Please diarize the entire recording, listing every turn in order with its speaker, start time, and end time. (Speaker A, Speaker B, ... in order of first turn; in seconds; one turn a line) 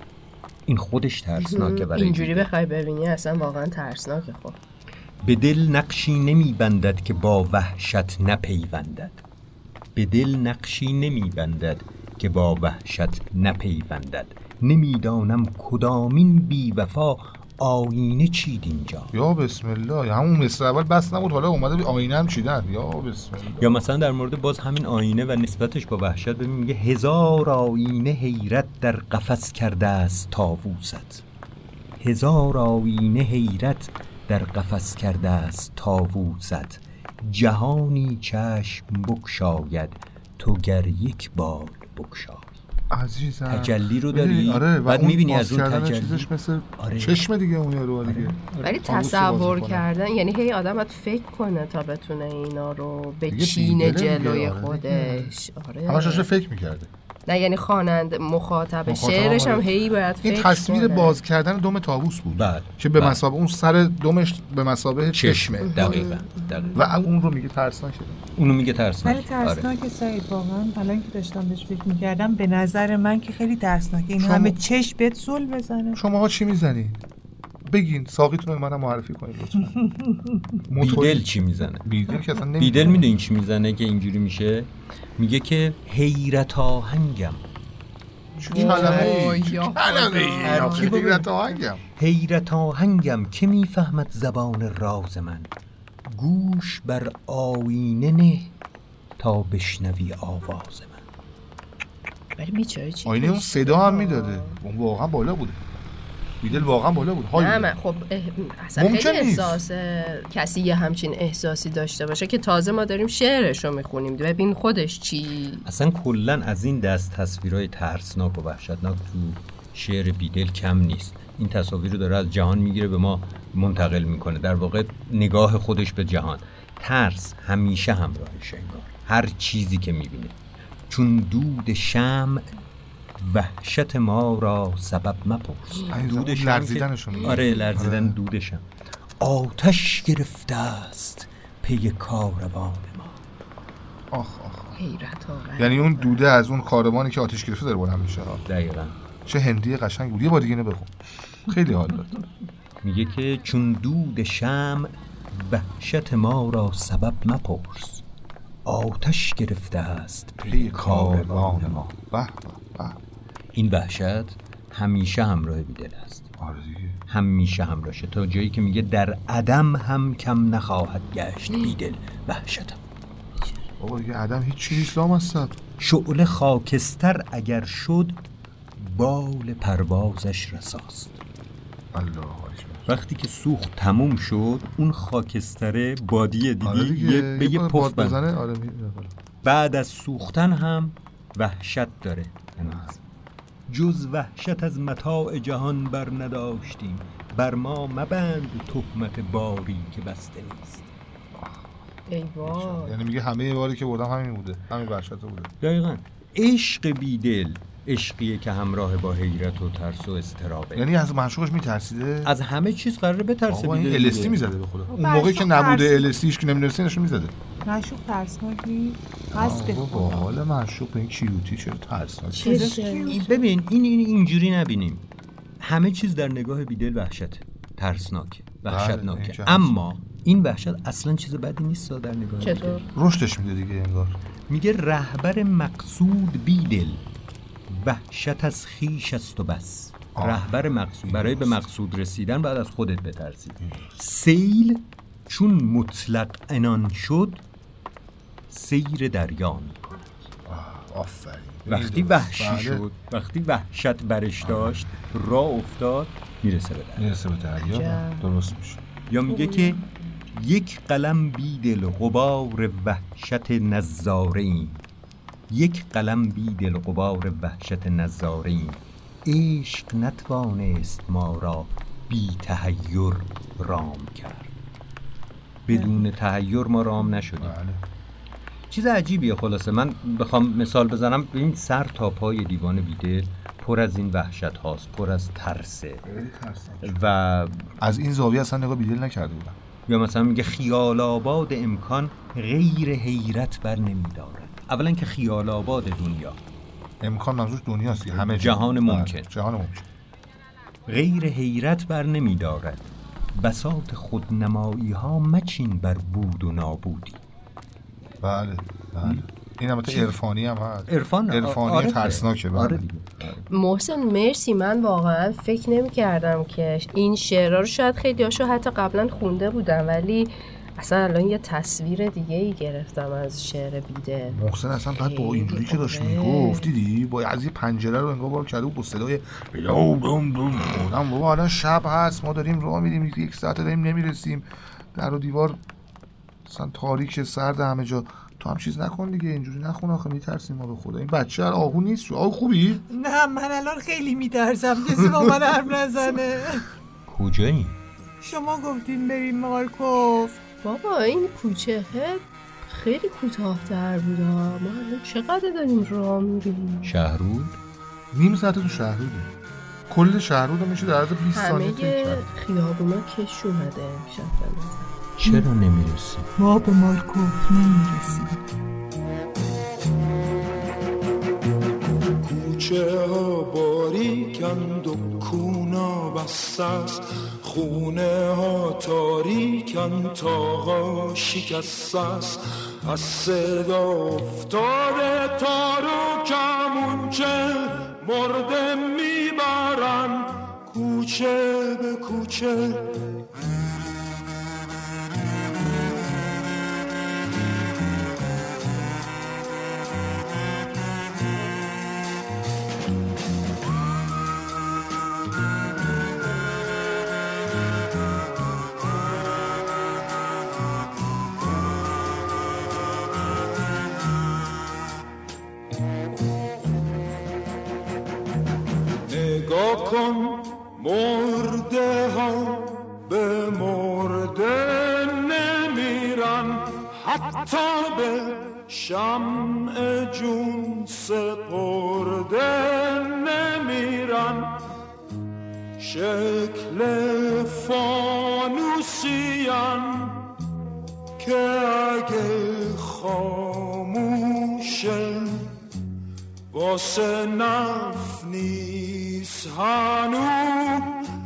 Speaker A: 0.7-2.5
Speaker B: 1.4-4.6
Speaker A: 5.2-9.2
Speaker A: 9.9-19.1
Speaker C: 19.1-23.7
Speaker A: 23.6-31.2
Speaker A: 32.0-42.5
Speaker C: 42.9-49.8
Speaker A: 43.5-47.2
Speaker A: 48.0-48.6
Speaker B: 48.6-56.3
Speaker C: 53.3-55.3
Speaker C: 55.9-56.9
Speaker B: 57.3-61.2
Speaker C: 58.9-66.1
Speaker A: 62.4-63.2
Speaker A: 65.1-66.8
Speaker B: 65.6-66.7
Speaker C: 66.7-68.3
Speaker A: 68.4-69.7
Speaker D: 69.0-76.0
Speaker C: 74.2-74.6
Speaker C: 76.0-77.0
Speaker C: 77.6-79.8
Speaker C: 80.7-83.1
Speaker A: 80.8-81.9
Speaker A: 82.6-87.4
Speaker C: 88.4-91.8
Speaker B: 88.5-91.0
Speaker A: 88.5-89.4
Speaker A: 90.4-91.3
Speaker A: 92.0-95.5
Speaker A: 96.0-98.5
Speaker A: 99.2-101.0
Speaker B: 102.4-104.6
Speaker C: 103.0-105.6
Speaker C: 106.4-107.7
Speaker B: 107.3-115.7
Speaker C: 108.8-109.6
Speaker A: 115.6-130.4
Speaker A: 130.9-132.5
Speaker A: 133.2-138.6
Speaker C: 135.9-138.2
Speaker A: 139.2-143.2
Speaker C: 144.1-144.8
Speaker B: 144.8-146.3
Speaker C: 145.6-148.4
Speaker A: 148.4-148.9
Speaker C: 149.2-152.2
Speaker A: 152.8-158.0
Speaker A: 158.6-161.8
Speaker C: 160.5-163.0
Speaker A: 163.5-166.3
Speaker C: 166.4-167.0
Speaker A: 167.1-172.8
Speaker C: 173.8-175.6
Speaker A: 175.8-178.2
Speaker A: 178.8-181.2
Speaker C: 181.9-182.9
Speaker A: 182.9-188.2
Speaker C: 186.6-189.1
Speaker A: 189.4-193.0
Speaker C: 192.6-192.9
Speaker A: 193.7-200.9
Speaker B: 202.1-203.0
Speaker C: 202.4-205.5
Speaker A: 205.6-210.8
Speaker C: 210.7-212.3
Speaker A: 212.2-214.4
Speaker C: 213.5-217.3
Speaker D: 214.9-216.1
Speaker D: 217.7-220.3
Speaker C: 219.3-222.8
Speaker D: 222.4-223.4
Speaker B: 222.4-223.3
Speaker A: 223.1-225.1
Speaker A: 225.6-232.9
Speaker C: 228.7-229.8
Speaker B: 232.4-232.9
Speaker C: 232.9-234.2
Speaker A: 234.5-237.0
Speaker A: 237.7-247.4
Speaker C: 240.2-241.6
Speaker C: 243.6-243.9
Speaker A: 248.5-250.1
Speaker C: 250.4-252.9
Speaker A: 251.7-257.1
Speaker C: 254.4-254.8
Speaker C: 257.0-258.8
Speaker B: 257.6-258.3
Speaker A: 259.1-264.8
Speaker B: 259.5-259.8
Speaker A: 265.5-274.5
Speaker A: 275.7-277.6
Speaker C: 277.4-277.8
Speaker A: 278.7-286.1
Speaker C: 286.1-287.1
Speaker A: 286.8-287.7
Speaker C: 287.8-289.6
Speaker A: 289.9-296.4
Speaker C: 297.0-299.9
Speaker A: 298.1-299.3
Speaker A: 300.9-307.2
Speaker C: 308.2-312.8
Speaker A: 310.9-313.4
Speaker B: 313.5-326.7
Speaker C: 324.3-335.6
Speaker C: 336.4-342.8
Speaker D: 342.9-346.7
Speaker A: 347.1-347.8
Speaker D: 348.2-350.4
Speaker B: 350.6-356.9
Speaker A: 356.8-357.6
Speaker C: 358.1-359.3
Speaker C: 359.9-362.3
Speaker B: 361.3-364.9
Speaker A: 365.2-366.3
Speaker D: 366.4-368.4
Speaker E: 372.2-393.0
Speaker E: 419.1-434.6
Speaker E: 435.8-440.3
Speaker E: 441.2-445.6
Speaker E: 446.5-451.0